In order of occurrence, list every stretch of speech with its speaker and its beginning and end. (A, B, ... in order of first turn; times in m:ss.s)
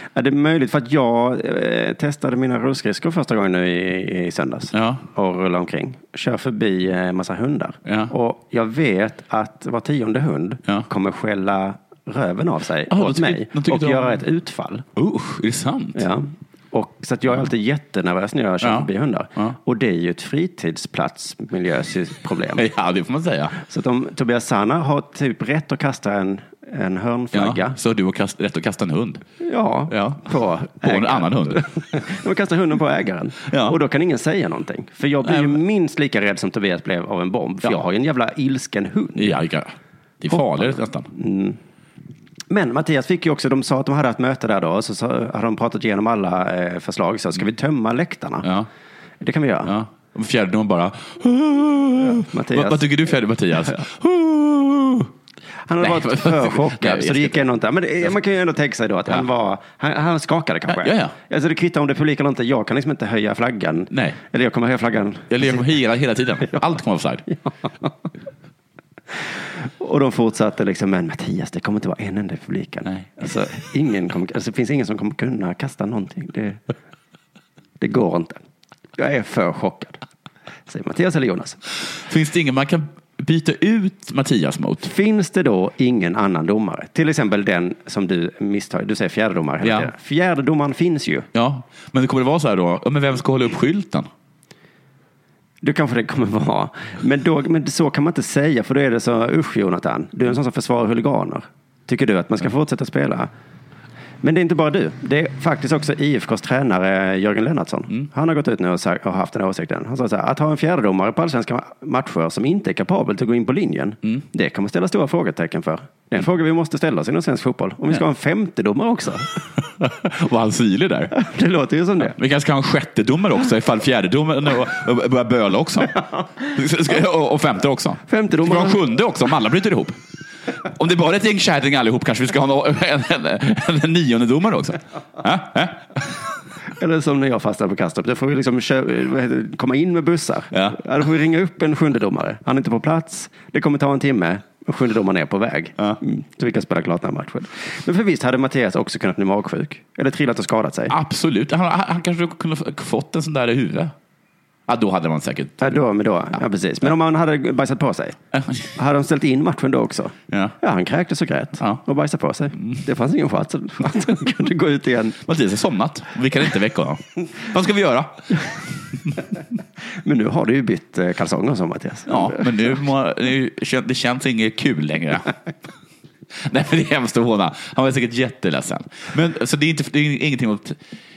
0:00.1-0:14.8 A
0:04.7-0:05.0 B
0:07.8-0:08.1 B
0:12.9-0:14.2 B
0:15.0-0:16.0 B
0:15.9-0:22.6 A
0:18.6-0:19.6 B
0:22.6-0:23.6 B
0:23.6-0:27.8 A
0:27.3-0:29.2 B
0:29.4-0:39.4 A
0:29.9-0:31.7 B
0:33.5-0:33.8 B
0:35.2-0:35.6 B
0:39.2-0:41.1 B
0:40.3-0:41.6 A
0:42.5-0:48.5 A
0:48.4-0:48.7 B
0:49.2-0:49.7 A
0:49.6-0:55.1 B
0:52.1-0:52.9 A
0:55.6-1:05.6 A
0:55.8-0:57.5 B
1:00.7-1:01.1 B
1:03.9-1:04.2 B
1:05.3-1:07.2 B
1:07.3-1:07.9 A
1:09.5-1:16.6 A
1:17.8-1:18.4 A
1:19.0-1:20.0 A
1:20.7-1:21.6 A
1:21.8-1:24.9 B
1:24.8-1:31.3 A
1:29.6-1:29.9 B
1:31.3-1:34.1 B
1:35.6-1:43.3 A
1:44.2-1:59.4 A
1:59.6-2:01.1 B
2:01.1-2:02.2 A
2:02.0-2:10.0 B
2:08.1-2:08.8 A
2:10.6-2:16.2 B
2:16.8-2:30.9 A
2:20.5-2:20.8 B
2:30.9-2:33.9 B
2:34.7-2:35.8 B
2:35.6-2:38.2 A
2:38.3-2:38.7 B
2:38.7-2:45.2 A
2:40.3-2:40.6 B
2:45.2-2:48.7 B
2:49.9-2:52.6 A
2:52.1-2:55.3 B
2:56.3-3:00.8 B